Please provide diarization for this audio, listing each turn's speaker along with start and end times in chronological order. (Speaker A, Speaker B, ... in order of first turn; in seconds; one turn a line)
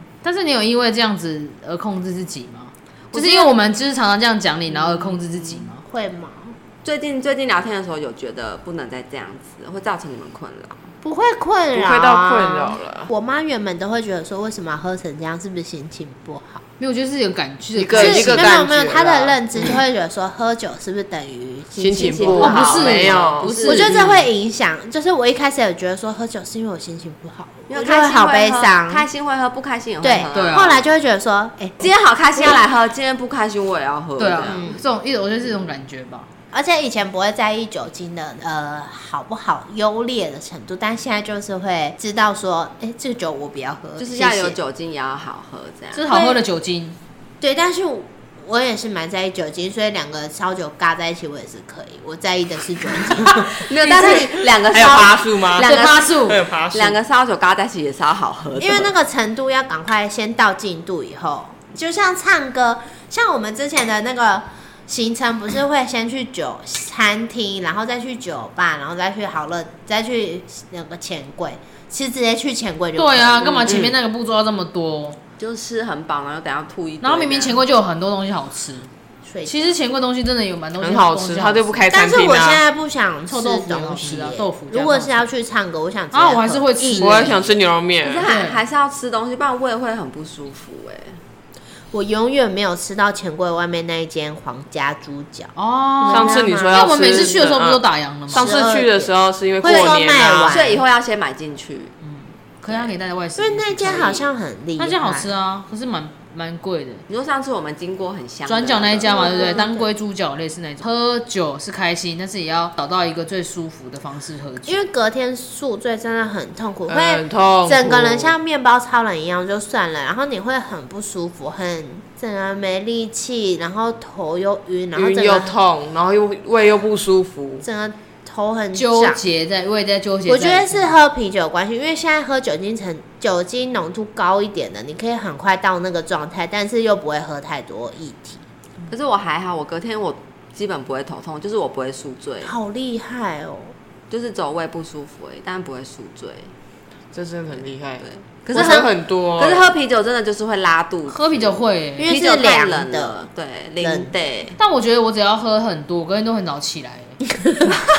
Speaker A: 0.2-5.8
Speaker B: 3.1-3.5
Speaker C: 5.8-6.5
Speaker B: 6.8-10.8
Speaker C: 11.0-16.6
Speaker D: 11.7-13.1
Speaker A: 16.8-18.5
Speaker D: 17.8-19.8
Speaker C: 17.9-22.8
Speaker B: 21.8-24.0
Speaker D: 21.8-23.5
Speaker A: 22.3-24.3
Speaker C: 23.6-29.1
Speaker B: 27.7-30.8
Speaker C: 30.0-31.8
Speaker A: 30.3-30.8
Speaker B: 31.8-34.7
Speaker A: 34.2-36.3
Speaker C: 34.5-34.8
Speaker C: 36.5-44.6
Speaker B: 44.0-46.4
Speaker A: 45.9-47.0
Speaker C: 47.4-54.2
Speaker B: 53.4-58.9
Speaker A: 53.8-54.3
Speaker D: 54.7-57.0
Speaker A: 55.6-56.4
Speaker C: 58.6-73.8
Speaker A: 73.0-75.2
Speaker D: 73.6-73.9
Speaker B: 75.4-77.6
Speaker A: 77.0-78.9
Speaker C: 79.2-79.7
Speaker A: 79.4-81.8
Speaker D: 80.8-82.6
Speaker C: 81.9-87.5
Speaker A: 83.3-85.2
Speaker A: 86.1-87.4
Speaker D: 86.9-88.2
Speaker B: 88.0-91.2
Speaker A: 88.2-88.6
Speaker C: 91.9-97.3
Speaker A: 95.5-98.5
Speaker D: 96.1-100.6
Speaker C: 98.3-100.8
Speaker B: 99.6-99.9
Speaker B: 100.5-101.9
Speaker A: 102.0-107.0
Speaker B: 102.6-102.9
Speaker C: 103.4-105.3
Speaker B: 107.1-109.5
Speaker A: 108.5-114.8
Speaker C: 109.1-109.9
Speaker C: 114.6-125.5
Speaker D: 116.9-118.3
Speaker D: 124.9-127.6
Speaker C: 127.6-129.2
Speaker A: 128.7-130.9
Speaker C: 130.2-138.4
Speaker B: 138.9-142.5
Speaker C: 142.4-143.7
Speaker B: 144.1-146.5
Speaker D: 147.1-149.7
Speaker B: 148.0-154.6
Speaker A: 151.1-152.1
Speaker C: 152.0-153.2
Speaker C: 153.8-154.1
Speaker A: 154.6-157.2